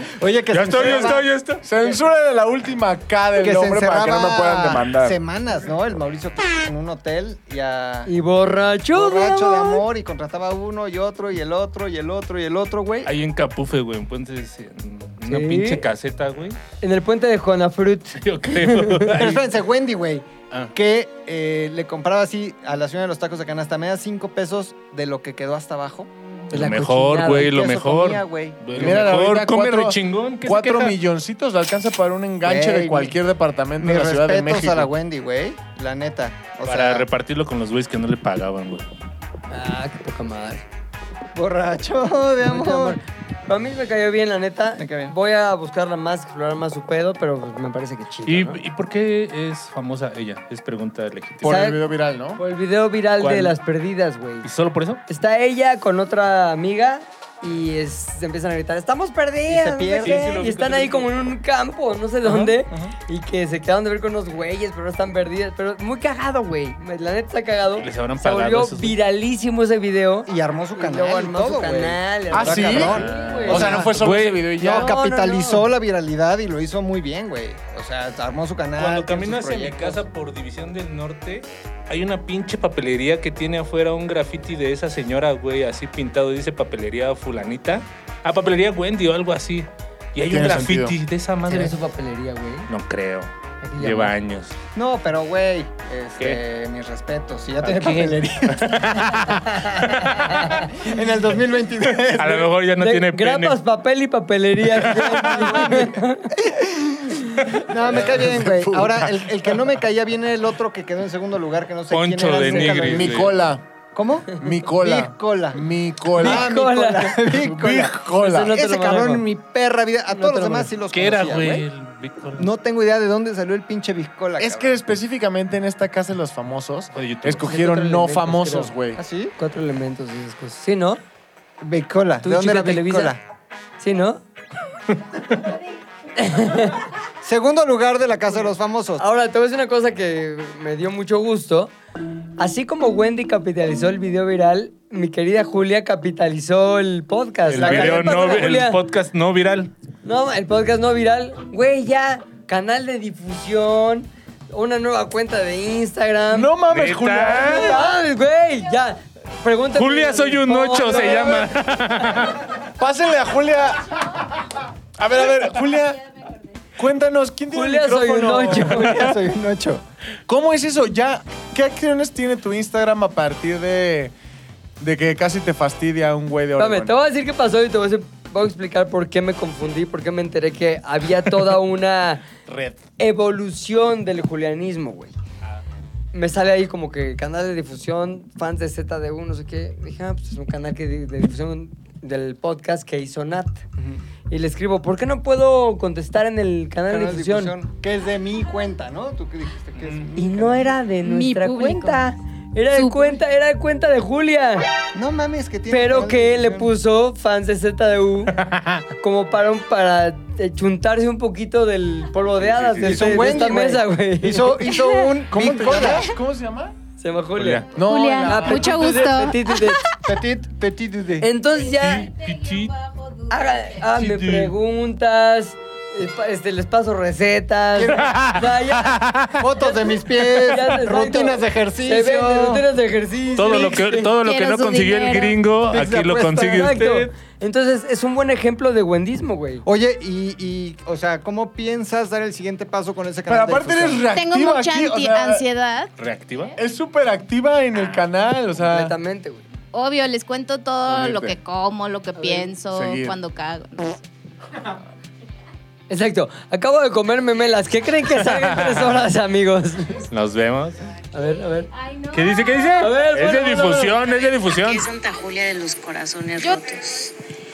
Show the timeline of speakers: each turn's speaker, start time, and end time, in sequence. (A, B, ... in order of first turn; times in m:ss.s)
0:00.2-0:01.2 A
0:00.5-0:01.6 B
0:01.6-0:05.2 C
0:03.4-0:08.1 A
0:08.1-0:09.9 D
0:08.9-0:13.1 A
0:13.0-0:16.6 B
0:15.3-0:15.8 D
0:16.8-0:19.1 D
0:18.2-0:19.5 B
0:19.1-0:26.1 A
0:26.5-0:27.6 D
0:26.5-0:31.0 B
0:27.4-0:29.0 A
0:28.7-0:34.9 C
0:32.4-0:33.2 A
0:33.8-0:37.0 A
0:36.6-0:38.9 B
0:39.5-0:40.6 D
0:41.4-0:43.0 A
0:42.4-0:48.6 D
0:44.8-0:45.1 A
0:48.3-0:51.5 B
0:51.4-0:52.4 C
0:51.4-0:51.8 D
0:52.4-0:54.5 D
0:53.2-0:53.6 B
0:54.4-0:55.0 B
0:55.1-1:13.8 D
0:59.5-1:00.5 A
1:00.0-1:01.1 B
1:02.2-1:02.9 A
1:07.8-1:09.0 B
1:10.3-1:14.0 A
1:12.3-1:14.9 C
1:12.7-1:14.5 B
1:14.6-1:20.0 A
1:14.6-1:15.7 D
1:18.8-1:31.8 B
1:30.2-1:31.0 C
1:31.4-1:32.7 D
1:32.7-1:34.5 B
1:33.6-1:34.2 D
1:34.8-1:39.2 A
1:37.6-1:40.4 B
1:39.3-1:40.7 D
1:40.7-1:42.5 A
1:42.1-1:43.6 B
1:42.8-1:46.3 D
1:44.8-1:53.3 A
1:47.8-1:49.6 C
1:51.9-1:53.4 B
1:52.4-1:52.7 D
1:52.7-1:53.6 C
1:54.0-2:01.6 A
1:54.3-1:56.6 C
1:56.2-1:57.2 D
1:57.3-1:58.6 C
1:58.2-1:59.2 D
2:00.1-2:00.7 D
2:00.9-2:02.5 B
2:02.4-2:04.8 A
2:04.4-2:09.0 C
2:06.9-2:07.5 B
2:07.5-2:08.7 D
2:08.9-2:09.3 A
2:09.4-2:11.0 D
2:11.6-2:13.2 A
2:12.2-2:13.1 D
2:13.8-2:14.2 D
2:14.9-2:15.4 B
2:16.2-2:16.8 D
2:17.2-2:19.0 A
2:19.0-2:21.7 D
2:22.4-2:28.8 D
2:27.5-2:29.7 B
2:27.6-2:28.5 A
2:30.0-2:36.6 D
2:36.3-2:38.0 C
2:36.7-2:37.8 B
2:37.2-2:42.3 D
2:39.8-2:42.4 B
2:42.8-2:44.4 C
2:45.0-2:46.2 C
2:46.8-2:48.9 C
2:47.5-2:49.1 D
2:48.6-2:49.8 A
2:50.3-2:54.1 C
2:54.8-2:56.9 C
2:56.6-3:02.2 D
3:02.5-3:02.8 B
3:03.0-3:05.2 D
3:06.1-3:13.6 D
3:14.3-3:17.6 D
3:16.9-3:20.8 A
3:19.8-3:20.1 B
3:20.2-3:24.7 D
3:21.0-3:22.0 E
3:22.7-3:23.2 E
3:24.9-3:26.7 A
3:25.7-3:28.4 D
3:28.3-3:28.9 B
3:29.0-3:34.7 D
3:32.4-3:33.5 B
3:32.8-3:36.2 A
3:34.7-3:35.1 E
3:35.2-3:36.8 C
3:37.0-3:37.7 D
3:37.4-3:37.7 B
3:37.8-3:38.8 C
3:37.8-3:40.0 E
3:38.2-3:39.9 D
3:40.0-3:41.3 A
3:41.2-3:42.1 D
3:41.7-3:42.8 B
3:42.6-3:43.4 E
3:43.3-3:49.0 D
3:43.9-3:44.5 B
3:47.8-3:48.1 A
3:47.9-3:49.5 B
3:49.4-3:52.6 A
3:50.4-3:54.1 D
3:53.4-3:57.1 B
3:54.2-3:55.4 E
3:55.7-3:56.3 A
3:56.1-3:59.6 D
3:59.6-4:04.1 A
4:03.3-4:05.4 C
4:04.1-4:05.9 E
4:06.0-4:06.6 B
4:06.6-4:09.0 C
4:08.6-4:09.5 D
4:09.7-4:14.0 E
4:10.9-4:11.4 C
4:12.2-4:12.5 D
4:12.7-4:13.2 C
4:15.9-4:20.1 D
4:18.2-4:19.0 B
4:20.1-4:20.8 B
4:21.1-4:21.7 D
4:21.8-4:22.8 E
4:22.1-4:24.8 B
4:22.8-4:24.0 D
4:24.0-4:27.1 F